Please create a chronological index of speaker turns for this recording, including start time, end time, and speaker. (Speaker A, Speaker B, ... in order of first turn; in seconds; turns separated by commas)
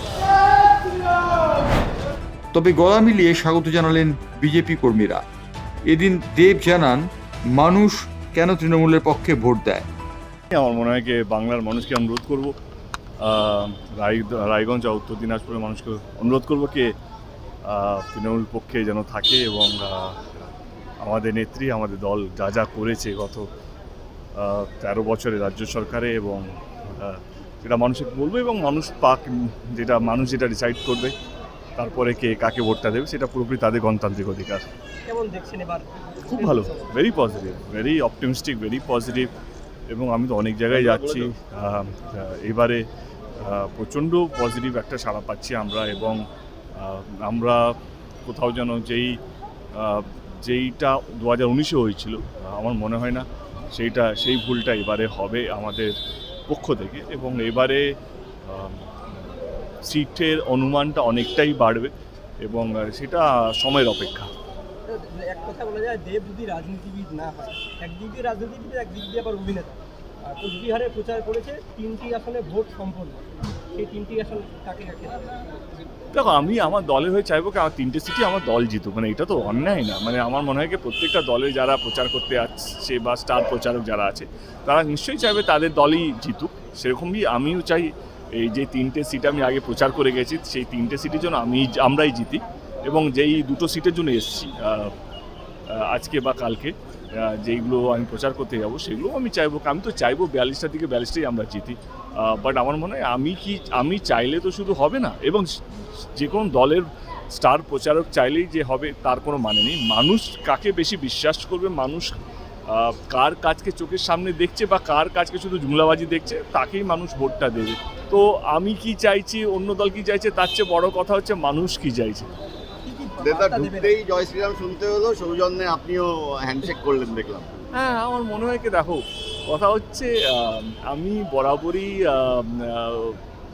Speaker A: 2.5-5.2, Speaker A: 5.9-9.9, Speaker B: 10.5-12.5, Speaker B: 13.2-16.9, Speaker B: 17.7-20.2, Speaker B: 21.0-23.4, Speaker B: 24.4-31.1, Speaker B: 31.8-34.6, Speaker C: 35.0-36.9, Speaker B: 36.3-39.3, Speaker B: 39.9-42.8, Speaker D: 40.7-41.3, Speaker B: 43.4-46.2, Speaker B: 46.8-47.7, Speaker B: 48.2-49.2, Speaker B: 49.8-56.0, Speaker B: 56.5-57.9, Speaker B: 58.5-58.9, Speaker B: 59.8-64.3, Speaker C: 64.8-75.4, Speaker B: 76.1-94.9, Speaker B: 95.7-112.2, Speaker B: 112.7-122.3, Speaker C: 122.8-124.0, Speaker D: 123.2-127.7, Speaker B: 127.7-133.2